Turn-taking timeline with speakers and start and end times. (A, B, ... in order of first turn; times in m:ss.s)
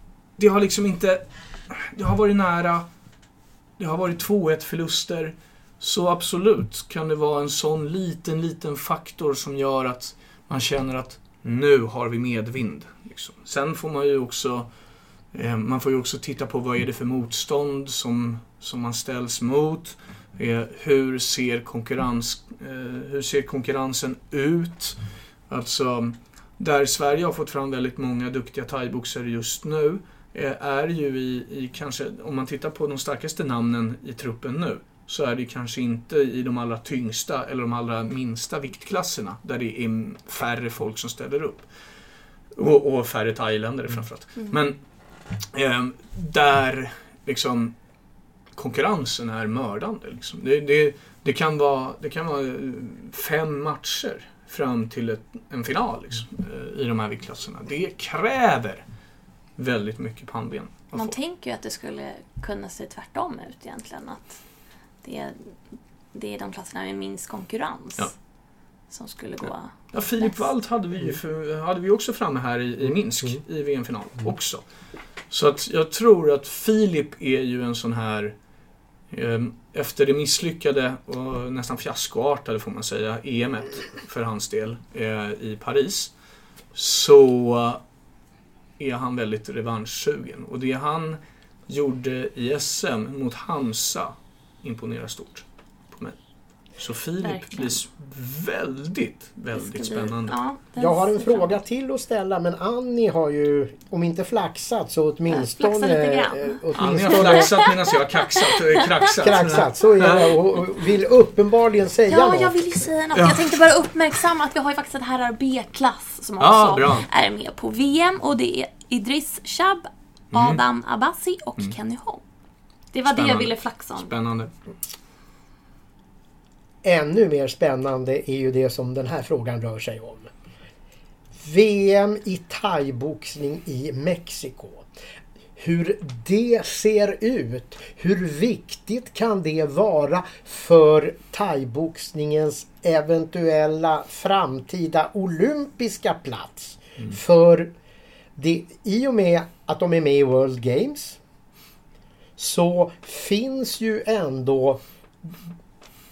0:00.4-0:02.9 A
0:03.8-0:14.7 A
0:15.3-0:25.0 A
0:25.5-0:41.7 A
0:42.5-0:44.8 A
0:45.5-0:47.7 A
0:48.5-0:58.8 A
0:59.6-1:01.2 A
1:00.9-1:04.4 B
1:05.0-1:05.5 B
1:06.1-1:08.1 B
1:08.9-1:10.4 B
1:09.9-1:14.6 A
1:15.3-1:18.3 A
1:19.1-1:26.1 A
1:26.7-1:27.8 A
1:28.8-1:36.2 A
1:36.8-1:40.4 A
1:37.2-1:37.8 B
1:39.5-1:41.5 B
1:40.8-1:47.6 C
1:45.3-1:49.1 B
1:46.7-1:50.4 A
1:49.1-1:52.6 C
1:52.1-2:02.2 B
1:53.1-1:53.6 A
1:56.4-1:57.0 A
2:00.3-2:00.6 A
2:02.9-2:04.1 B
2:03.1-2:04.5 A
2:06.8-2:10.3 C
2:11.4-2:14.8 C
2:15.6-2:27.7 C
2:28.4-2:31.2 C
2:32.4-2:35.3 C